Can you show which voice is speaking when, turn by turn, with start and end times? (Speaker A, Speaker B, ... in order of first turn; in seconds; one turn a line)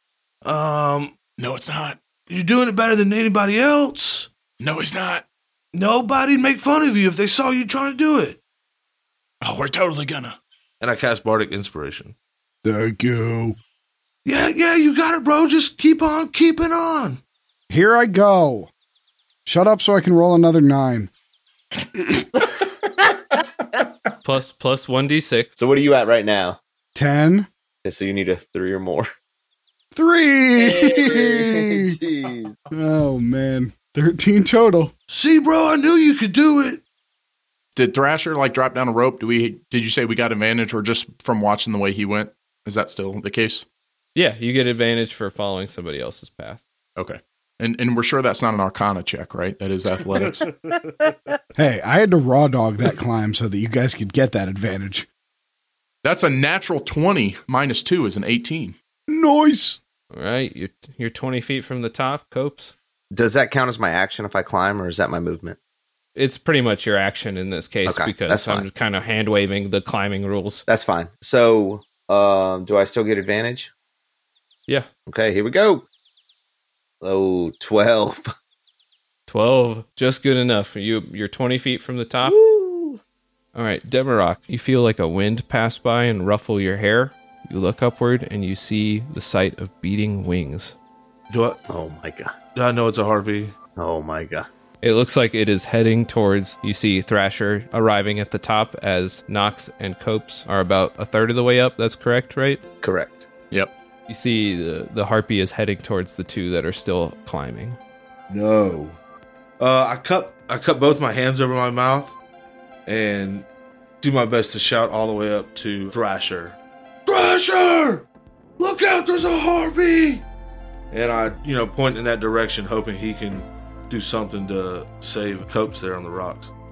Speaker A: 0.4-1.2
Speaker B: 1.4-2.0
Speaker A: 2.3-4.3
Speaker B: 4.6-5.2
Speaker A: 5.7-8.4
Speaker B: 9.4-10.4
Speaker A: 10.8-12.1
Speaker C: 12.6-13.6
Speaker A: 14.2-17.2
Speaker C: 17.7-18.7
Speaker C: 19.4-21.1
Speaker C: 21.9-22.2
Speaker D: 24.2-25.5
Speaker E: 25.6-26.6
Speaker C: 26.9-27.5
Speaker E: 27.8-29.1
Speaker C: 29.9-32.0
Speaker E: 30.6-32.5
Speaker C: 32.7-34.9
Speaker A: 35.1-36.8
Speaker B: 37.8-43.6
Speaker D: 44.1-46.6
Speaker B: 47.0-50.5
Speaker C: 51.5-55.1
Speaker B: 56.0-58.8
Speaker C: 59.1-59.8
Speaker D: 60.1-62.7
Speaker E: 63.1-65.6
Speaker D: 66.1-70.6
Speaker E: 67.8-68.7
Speaker E: 70.7-73.7
Speaker E: 75.1-75.9
Speaker E: 77.0-78.3
Speaker D: 79.3-82.3
Speaker E: 82.2-83.0
Speaker D: 83.5-90.7
Speaker A: 91.3-91.6
Speaker E: 91.7-92.3
Speaker A: 92.5-93.5
Speaker E: 93.8-94.5
Speaker D: 94.8-102.6
Speaker E: 102.8-103.2
Speaker D: 104.1-107.8
Speaker A: 108.3-109.0
Speaker A: 109.6-112.1
Speaker A: 112.8-113.5
Speaker A: 114.0-118.0
Speaker A: 118.6-120.2
Speaker A: 120.9-126.5